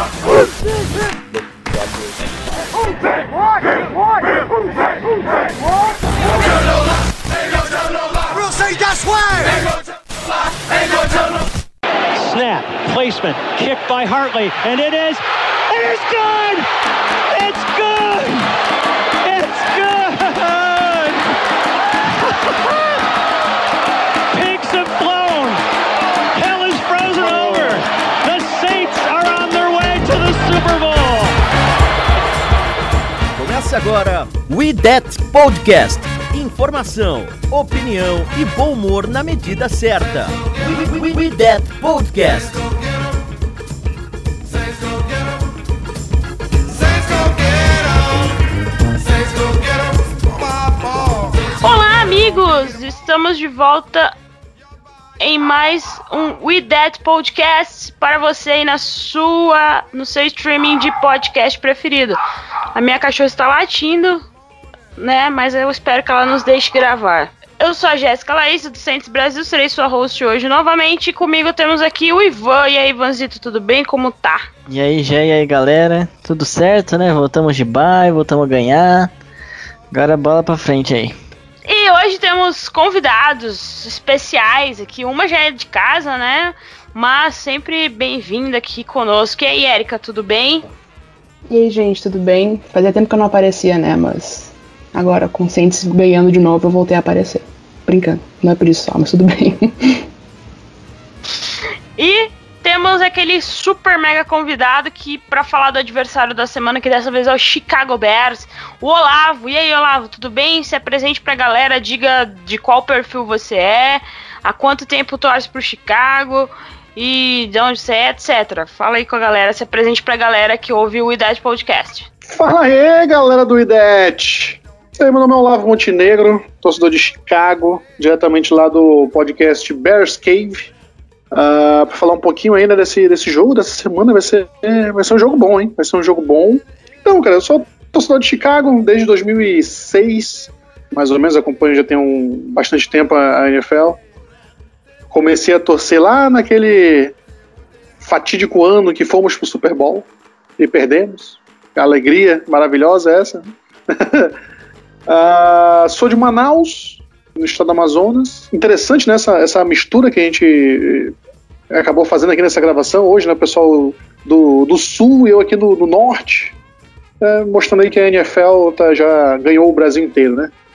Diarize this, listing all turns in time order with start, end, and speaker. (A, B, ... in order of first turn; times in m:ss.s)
0:00.3-0:00.5 A
0:03.7-0:04.3 B
0:07.8-0:09.7 B
0:10.8-0:11.3 B
0:12.1-0:16.7 B
0:17.3-0:18.5 B
0:19.2-0:21.2 B
0:22.4-0:23.0 B
0:24.3-0:25.6 B
0:26.3-0:31.4 B
0:33.4-0:42.7 C
0:51.6-0:54.1 D
0:55.2-1:02.2 D
1:02.8-1:04.2 D
1:05.0-1:14.5 D
1:14.7-1:19.1 E
1:19.9-1:21.2 E
1:21.7-1:30.6 D
1:31.5-1:40.0 A
1:42.0-2:02.1 D
2:02.3-2:10.7 F
2:11.3-2:24.0 F
2:25.1-2:27.1 F
2:28.0-2:30.1 F
2:30.6-2:34.4 F
2:35.1-2:41.1 F
2:41.7-2:46.6 F
2:47.2-2:50.5 F